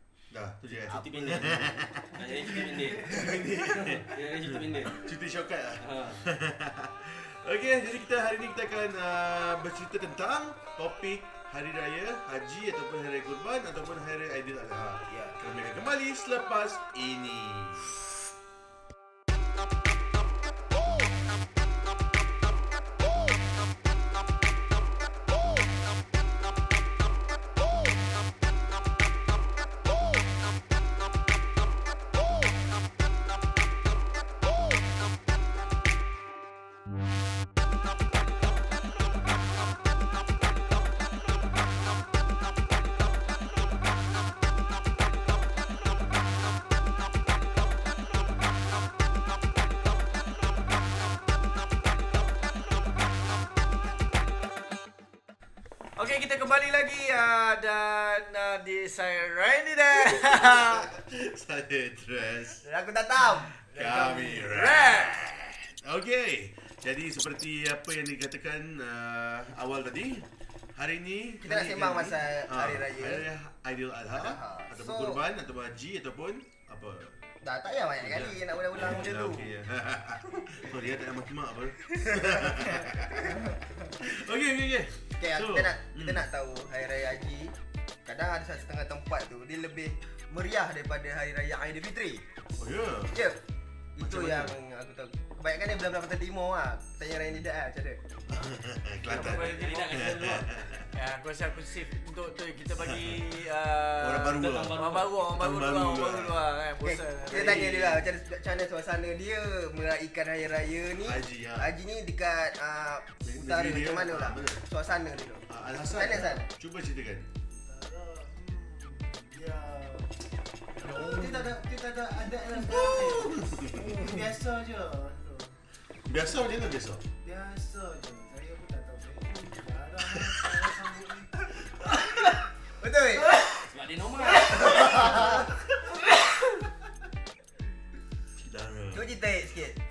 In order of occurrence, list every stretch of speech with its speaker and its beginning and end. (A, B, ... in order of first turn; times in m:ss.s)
0:00.3-0:17.9 A
0:00.9-0:01.6 B
0:00.9-0:01.8 C
0:02.1-0:05.1 B
0:05.8-0:06.3 B
0:15.1-0:15.4 C
0:56.0-1:00.9 D
1:00.2-1:02.6 A
1:02.6-1:04.0 C
1:03.6-1:17.2 A
1:03.9-1:05.2 D
1:11.4-1:13.3 C
1:14.1-1:15.2 C
1:17.4-1:19.5 C
1:18.0-1:23.4 A
1:18.0-1:18.3 B
1:21.9-1:23.6 C
1:24.0-1:26.2 A
1:25.2-1:27.5 C
1:28.0-1:32.2 C
1:32.6-1:33.2 A
1:33.1-1:33.4 C
1:34.0-1:38.0 C
1:34.0-1:34.6 A
1:38.3-1:40.9 A
1:39.1-1:39.5 C
1:39.1-1:40.2 D
1:39.3-1:40.6 B
1:40.9-1:48.0 D
1:42.8-1:43.4 A
1:43.9-1:46.5 A
1:44.3-1:45.2 B
1:46.8-1:56.4 C
1:47.3-1:47.8 A
1:51.0-1:51.7 A
1:53.2-1:54.6 A
1:55.5-1:57.3 A
1:57.5-2:00.2 E
2:00.7-2:05.6 E
2:00.9-2:01.5 D
2:02.5-2:04.1 A
2:06.0-2:07.0 A
2:07.2-2:12.4 E
2:10.1-2:10.4 A
2:12.8-2:13.5 C
2:13.1-2:13.6 E
2:13.5-2:15.4 B
2:14.3-2:15.5 C
2:14.8-2:15.5 E
2:18.4-2:19.1 A
2:18.9-2:19.8 C